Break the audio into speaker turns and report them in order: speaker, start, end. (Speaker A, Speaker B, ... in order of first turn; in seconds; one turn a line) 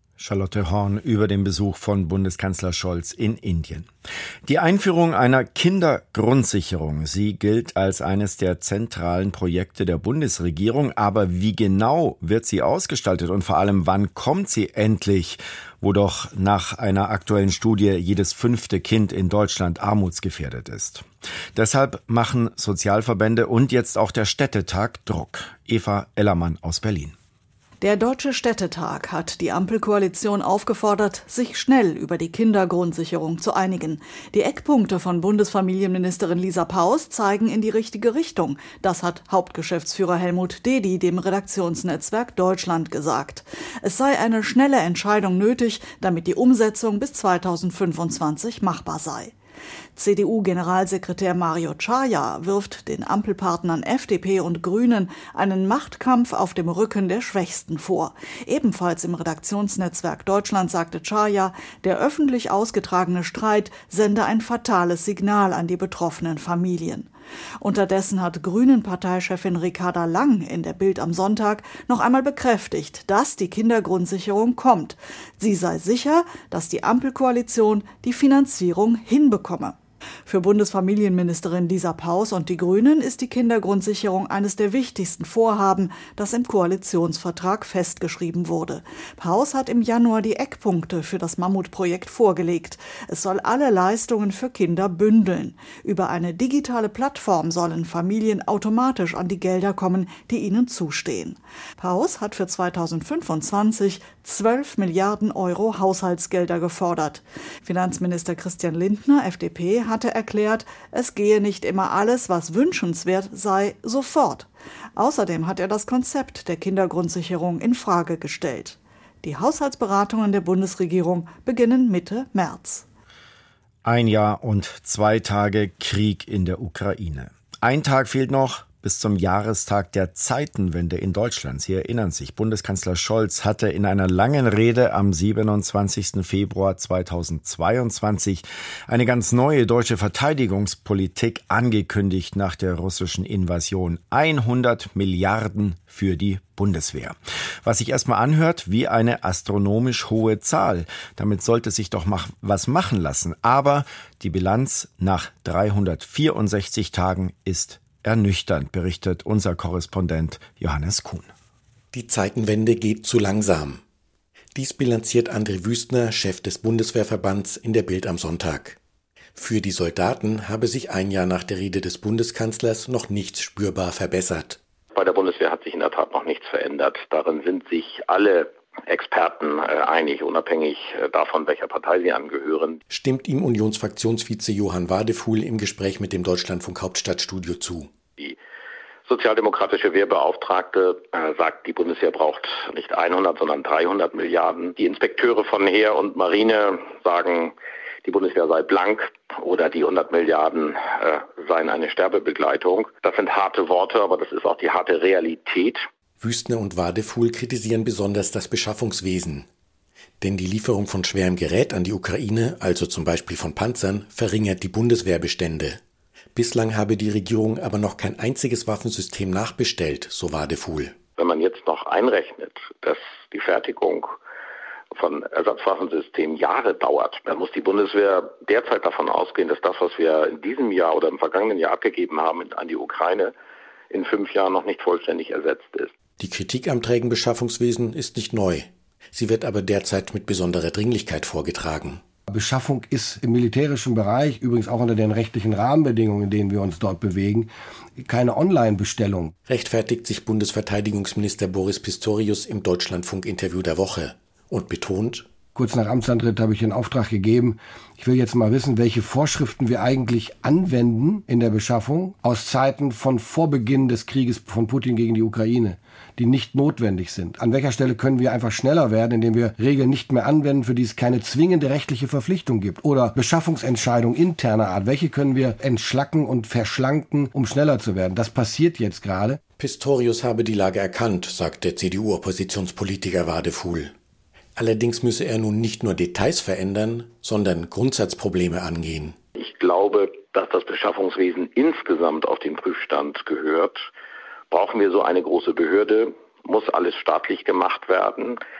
Speaker A: 0.2-3.9
Speaker A: 4.4-27.1
Speaker B: 27.8-49.3
Speaker B: 50.0-67.1
Speaker B: 67.6-122.8
Speaker A: 123.8-161.3
Speaker C: 161.9-163.8
Speaker C: 164.5-168.8
Speaker C: 169.3-174.6
Speaker D: 174.9-182.8
Speaker C: 182.9-187.9
Speaker D: 189.1-205.8
Speaker C: 206.2-209.5
Speaker C: 210.2-215.8
Speaker C: 216.3-220.9
Speaker D: 221.2-224.1
Speaker D: 224.9-233.3
Speaker D: 233.9-235.9
Speaker C: 236.2-242.0
Speaker E: 242.3-249.3
Speaker C: 249.5-255.2
Speaker E: 255.5-279.4
Speaker C: 279.6-283.9
Speaker C: 284.6-289.1
Speaker D: 289.4-293.8
Speaker D: 294.5-298.4